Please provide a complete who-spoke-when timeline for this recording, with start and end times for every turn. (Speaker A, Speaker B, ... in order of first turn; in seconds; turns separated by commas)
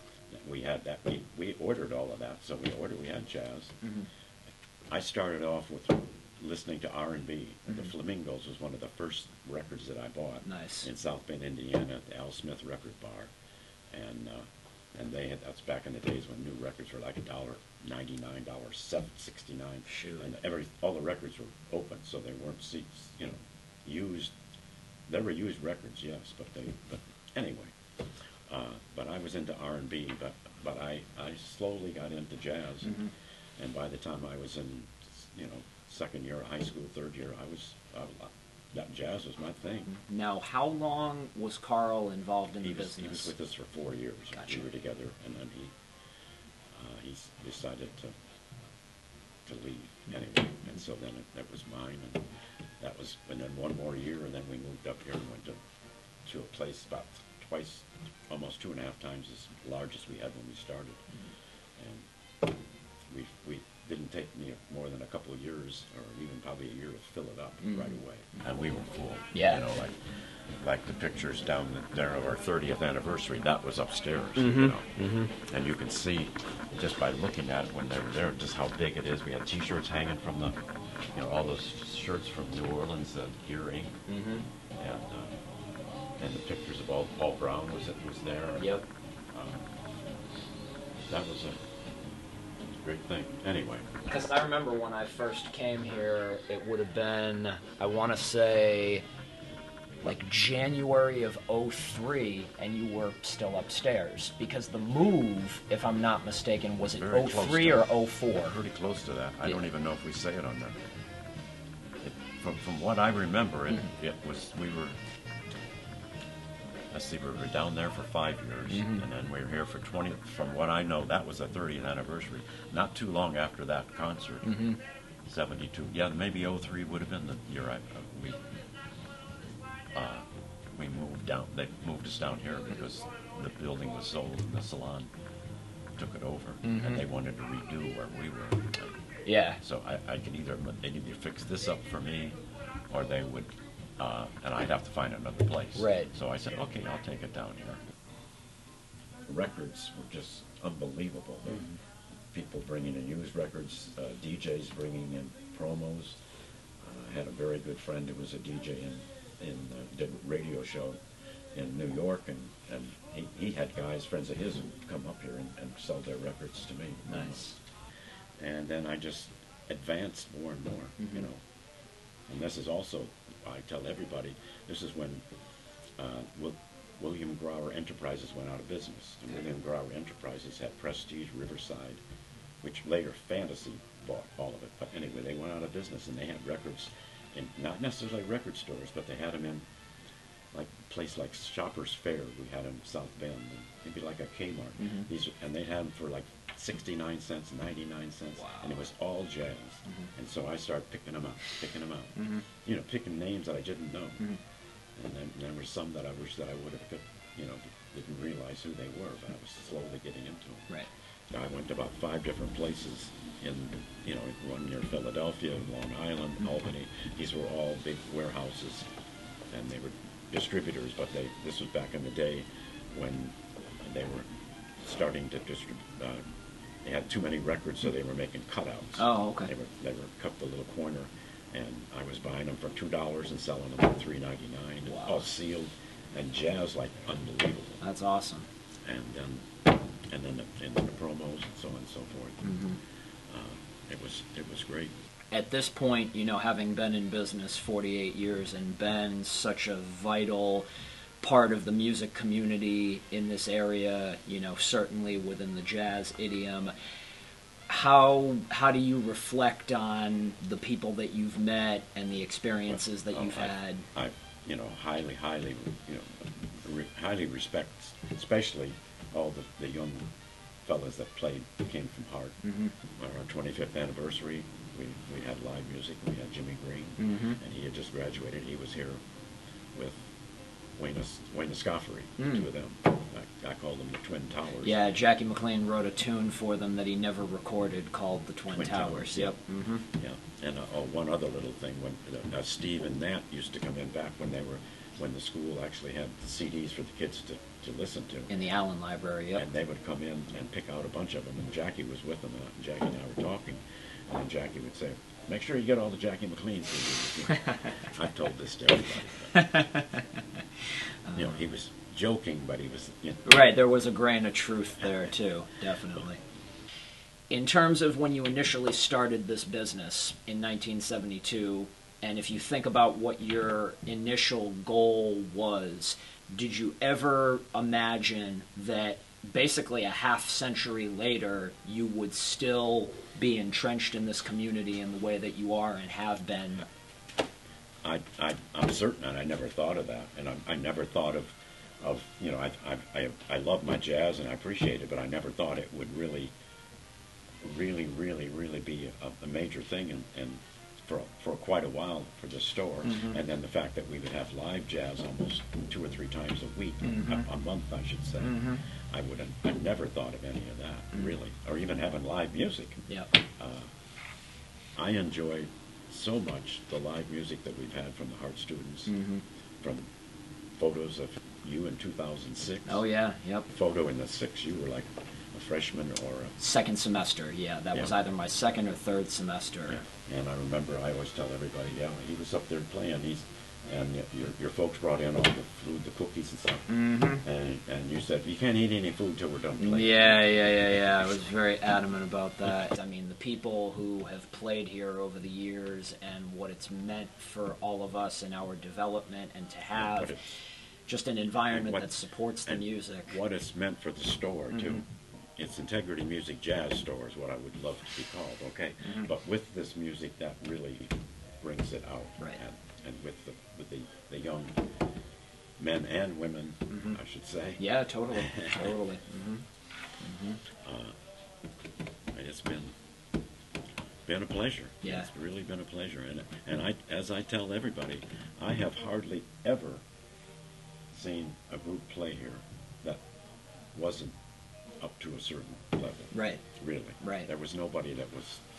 Speaker A: 0.3-3.8, Speaker B: 3.8-4.1, Speaker A: 4.9-13.3, Speaker B: 10.4-10.9, Speaker A: 13.9-24.3, Speaker B: 19.9-20.3, Speaker A: 25.1-27.8, Speaker A: 28.5-33.0, Speaker B: 32.8-33.1, Speaker A: 33.6-39.9, Speaker B: 39.9-43.3, Speaker A: 42.6-45.7, Speaker B: 44.3-44.6, Speaker A: 46.7-48.1, Speaker A: 49.5-52.2, Speaker A: 52.8-55.6, Speaker A: 56.2-61.0, Speaker A: 61.8-62.1, Speaker A: 63.1-70.0, Speaker B: 67.6-68.0, Speaker B: 69.3-69.6, Speaker A: 70.5-80.6, Speaker B: 74.4-75.3, Speaker A: 81.1-84.0, Speaker B: 84.1-84.5, Speaker A: 84.8-85.3, Speaker A: 86.2-89.7, Speaker B: 88.6-88.8, Speaker A: 91.0-91.6, Speaker A: 92.7-93.9, Speaker B: 94.0-99.0, Speaker B: 100.0-108.5, Speaker A: 106.8-110.8, Speaker A: 112.0-115.0, Speaker A: 116.9-124.4, Speaker B: 118.7-119.0, Speaker B: 124.4-124.8, Speaker A: 125.2-128.4, Speaker A: 129.9-135.1, Speaker A: 136.0-138.9, Speaker B: 136.6-137.0, Speaker B: 139.2-139.6, Speaker A: 139.6-142.4, Speaker A: 142.9-147.8, Speaker B: 145.8-146.1, Speaker A: 149.3-151.6, Speaker A: 152.3-156.2, Speaker A: 156.8-161.0, Speaker A: 161.5-167.5, Speaker B: 167.1-167.5, Speaker A: 168.4-171.4, Speaker B: 171.0-171.3, Speaker A: 172.3-175.2, Speaker A: 176.0-182.0, Speaker A: 182.6-189.7, Speaker A: 190.5-204.2, Speaker B: 194.8-195.1, Speaker B: 198.4-198.8, Speaker B: 202.2-202.4, Speaker A: 204.9-210.7, Speaker A: 211.3-218.9, Speaker A: 219.5-224.3, Speaker A: 224.8-226.2, Speaker A: 226.8-237.8, Speaker B: 229.0-229.5, Speaker B: 234.8-235.3, Speaker B: 237.8-238.5, Speaker A: 238.8-239.4, Speaker A: 240.1-242.4, Speaker B: 242.4-242.8, Speaker A: 243.3-244.9, Speaker B: 245.3-250.7, Speaker B: 251.2-256.7, Speaker B: 257.7-263.9, Speaker A: 262.7-270.1, Speaker A: 270.6-272.4, Speaker B: 272.4-272.7, Speaker A: 272.9-279.0, Speaker B: 277.0-277.4, Speaker A: 279.7-280.1, Speaker A: 280.8-284.9, Speaker B: 282.2-282.4, Speaker B: 284.6-289.8, Speaker A: 288.5-289.4, Speaker A: 289.9-298.3, Speaker B: 298.3-299.4, Speaker A: 299.3-309.6, Speaker B: 307.3-307.7, Speaker B: 309.3-310.2, Speaker B: 311.1-311.4, Speaker A: 311.1-313.3, Speaker B: 313.2-316.2, Speaker A: 314.8-315.1, Speaker B: 317.3-336.6, Speaker A: 337.8-346.3, Speaker A: 347.4-362.8, Speaker B: 352.8-353.2, Speaker B: 356.8-357.3, Speaker B: 358.2-358.6, Speaker A: 363.4-363.7, Speaker A: 364.8-368.9, Speaker B: 368.9-369.2, Speaker A: 369.6-369.9, Speaker A: 370.5-372.8, Speaker B: 372.6-373.5, Speaker A: 373.5-376.3, Speaker B: 376.4-379.8, Speaker A: 379.7-386.7, Speaker B: 386.7-387.2, Speaker A: 387.2-391.0, Speaker B: 389.6-400.1, Speaker A: 399.7-400.3, Speaker B: 400.9-403.2, Speaker A: 401.5-401.9, Speaker A: 402.4-414.6, Speaker B: 404.5-404.8, Speaker B: 408.8-409.1, Speaker A: 415.6-417.6, Speaker B: 416.7-417.0, Speaker B: 417.6-419.4, Speaker A: 418.1-418.7, Speaker B: 420.0-420.4, Speaker A: 420.6-420.9, Speaker A: 422.1-422.7, Speaker A: 424.1-429.8, Speaker B: 424.8-425.1, Speaker A: 430.9-433.0, Speaker A: 433.7-434.1, Speaker A: 434.8-438.4, Speaker B: 436.1-436.4, Speaker B: 437.0-437.3